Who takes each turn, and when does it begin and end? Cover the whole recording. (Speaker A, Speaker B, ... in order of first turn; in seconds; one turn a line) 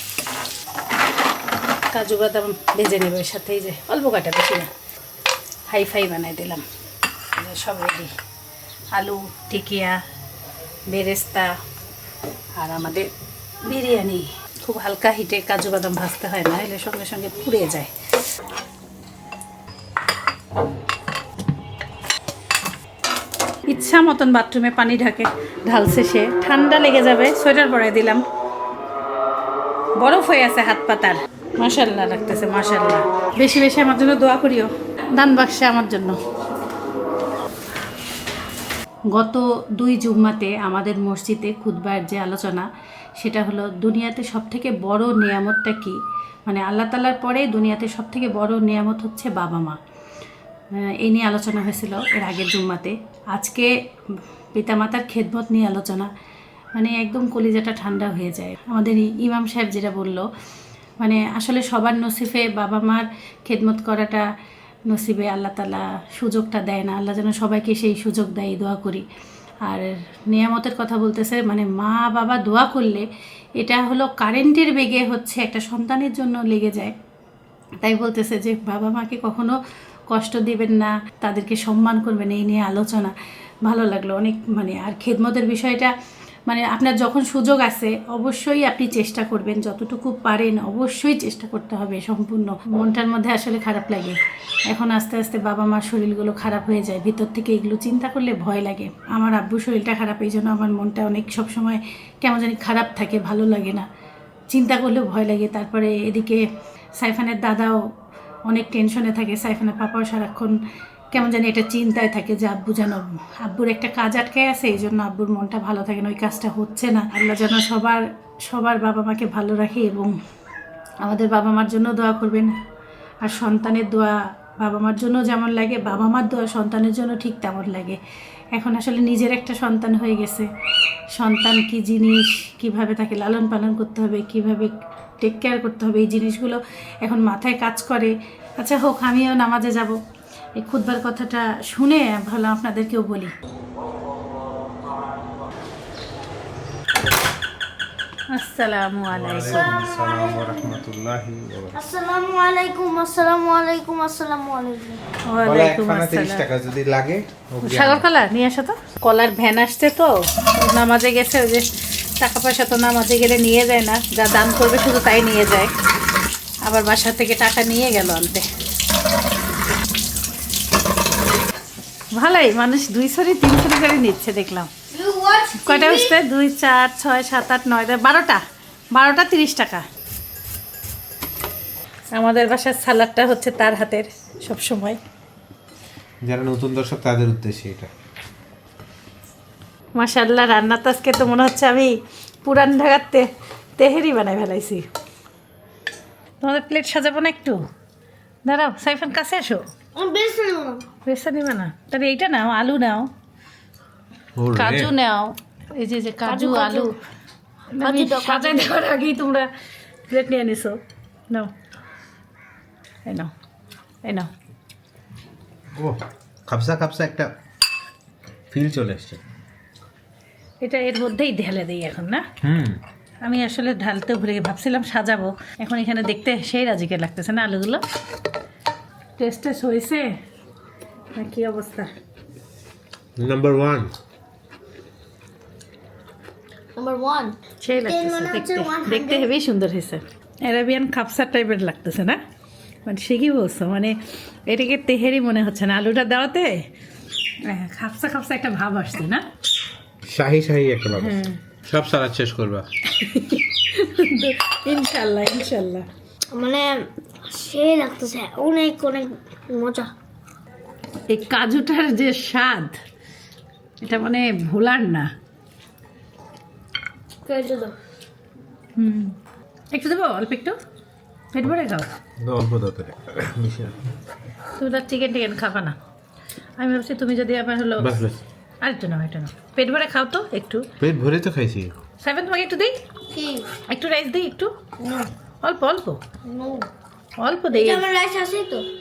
Speaker A: 1.9-4.7
Speaker A: 5.7-6.6
Speaker A: 7.4-8.1
Speaker A: 8.9-10.0
Speaker A: 10.9-11.6
Speaker A: 12.6-13.1
Speaker A: 13.7-17.9
Speaker A: 23.7-28.2
Speaker A: 30.0-36.2
Speaker A: 39.1-42.7
Speaker A: 43.2-49.8
Speaker A: 50.7-56.1
Speaker A: 56.7-60.3
Speaker A: 61.0-64.2
Speaker A: 64.9-69.0
Speaker A: 69.6-73.0
Speaker A: 73.6-76.9
Speaker A: 77.8-79.6
Speaker A: 80.1-83.1
Speaker A: 83.6-85.9
Speaker A: 86.5-103.9
Speaker A: 104.5-106.5
Speaker A: 107.0-107.8
Speaker A: 108.5-110.6
Speaker A: 111.1-120.2
Speaker A: 121.0-122.5
Speaker A: 123.2-128.0
Speaker A: 128.5-130.5
Speaker A: 131.1-140.0
Speaker A: 140.6-143.3
Speaker A: 148.3-149.7
Speaker B: 149.1-151.8
Speaker C: 151.7-155.0
Speaker A: 155.2-156.4
Speaker B: 155.4-158.0
Speaker A: 157.6-161.7
Speaker A: 162.2-165.7
Speaker A: 166.6-168.4
Speaker A: 172.1-174.7
Speaker C: 174.9-176.2
Speaker A: 175.6-178.4
Speaker A: 178.9-179.8
Speaker A: 182.1-185.0
Speaker B: 186.2-187.9
Speaker A: 189.9-194.8
Speaker A: 196.4-197.6
Speaker A: 198.4-199.6
Speaker C: 199.9-200.8
Speaker A: 201.1-203.1
Speaker B: 204.4-204.9
Speaker A: 204.5-206.9
Speaker C: 206.2-206.9
Speaker C: 207.7-208.8
Speaker A: 207.8-209.5
Speaker A: 210.1-211.5
Speaker A: 214.0-214.3
Speaker B: 215.8-217.3
Speaker B: 218.5-219.2
Speaker A: 220.6-222.2
Speaker B: 222.4-222.8
Speaker A: 223.2-227.8
Speaker A: 229.2-230.1
Speaker A: 231.1-231.9
Speaker B: 233.2-233.9
Speaker C: 236.8-239.3
Speaker A: 237.6-242.2
Speaker A: 242.8-246.7
Speaker A: 247.4-249.2
Speaker B: 250.0-252.7
Speaker A: 251.0-251.4
Speaker A: 252.9-255.8
Speaker C: 256.3-259.9
Speaker A: 261.1-262.8
Speaker A: 263.8-265.1
Speaker C: 267.2-267.7
Speaker A: 268.8-269.1
Speaker A: 269.7-270.6
Speaker A: 271.3-271.9
Speaker B: 272.2-273.8
Speaker A: 274.6-275.8
Speaker A: 276.6-278.0
Speaker B: 277.8-278.2
Speaker A: 278.6-280.7
Speaker B: 280.8-281.7
Speaker A: 282.0-282.8
Speaker C: 283.1-283.5
Speaker A: 283.7-284.5
Speaker C: 284.8-285.1
Speaker A: 285.4-286.0
Speaker C: 286.2-286.7
Speaker A: 287.2-287.8
Speaker C: 287.5-288.7